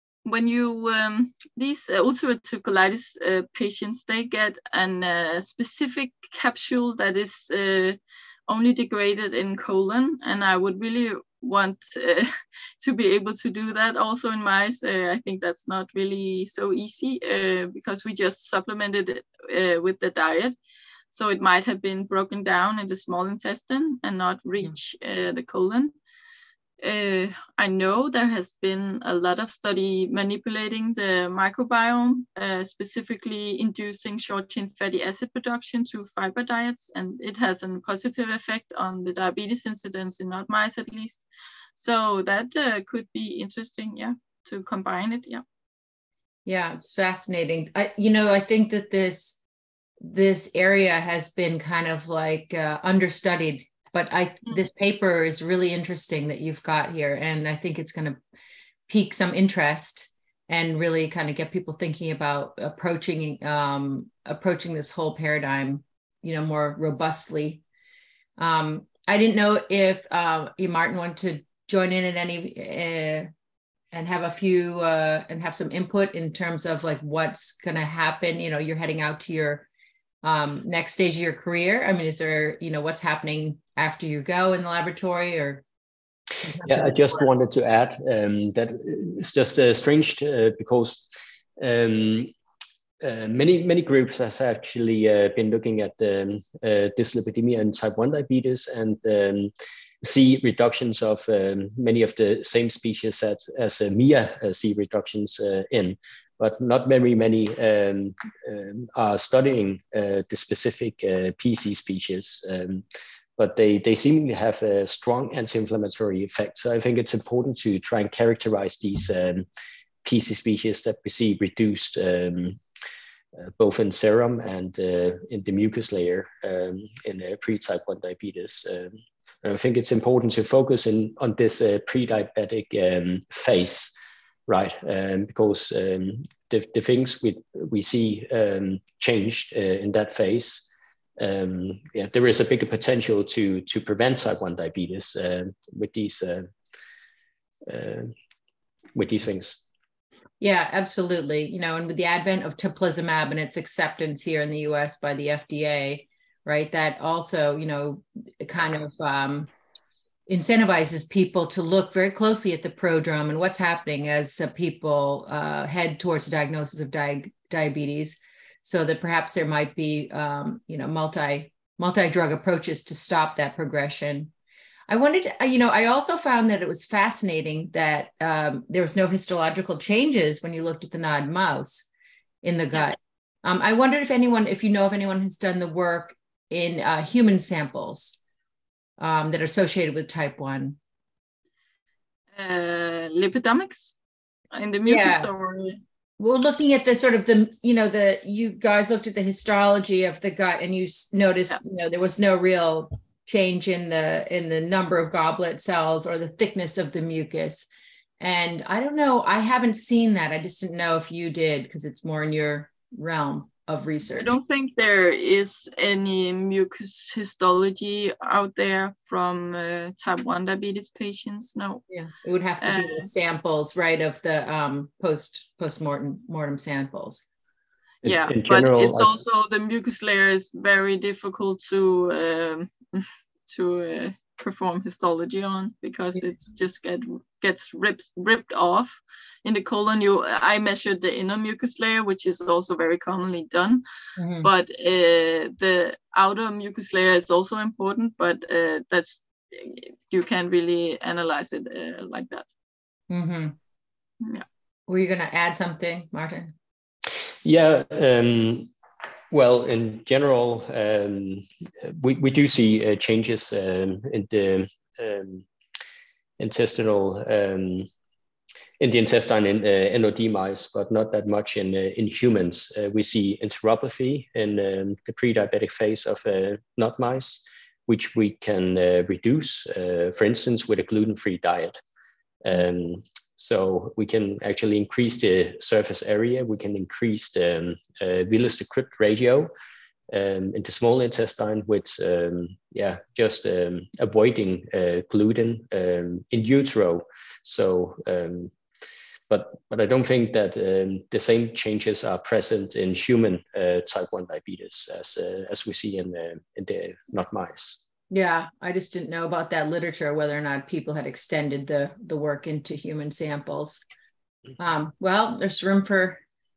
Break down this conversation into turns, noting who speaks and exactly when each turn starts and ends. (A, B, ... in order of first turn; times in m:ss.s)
0:00.2-0:12.3 A
0:12.8-0:20.5 A
0:21.1-0:25.9 A
0:26.8-0:41.2 A
0:41.8-0:45.4 A
0:46.4-0:49.4 B
0:50.0-0:58.2 B
0:58.9-1:07.6 B
1:08.4-1:13.3 B
1:13.9-1:19.7 B
1:20.2-1:25.6 B
1:26.4-1:27.2 B
1:26.6-1:32.3 C
1:33.0-1:52.8 C
1:53.4-1:59.4 C
2:00.0-2:02.6 C
2:03.4-2:13.9 C
2:14.5-2:20.7 C
2:21.2-2:26.5 C
2:27.7-2:28.1 C
2:28.9-2:29.6 C
2:30.4-2:39.5 B
2:40.3-2:54.3 B
2:54.9-3:01.9 B
3:02.4-3:08.2 B
3:09.0-3:10.8 B
3:12.3-3:14.0 A
3:14.5-3:15.8 A
3:14.8-3:15.3 B
3:16.2-3:27.7 B
3:28.2-3:34.3 B
3:34.2-3:41.8 A
3:41.9-3:47.2 B
3:42.6-3:43.1 A
3:48.0-3:49.2 C
3:48.0-4:03.8 A
4:04.2-4:04.5 B
4:04.4-4:12.4 A
4:13.1-4:13.6 B
4:14.9-4:16.5 B
4:17.4-4:18.7 C
4:19.3-4:25.4 C
4:26.4-4:27.9 C
4:28.8-4:41.8 C
4:42.4-4:49.5 C
4:50.1-4:58.5 C
4:59.3-5:07.8 C
5:08.1-5:13.8 B
5:14.6-5:16.2 B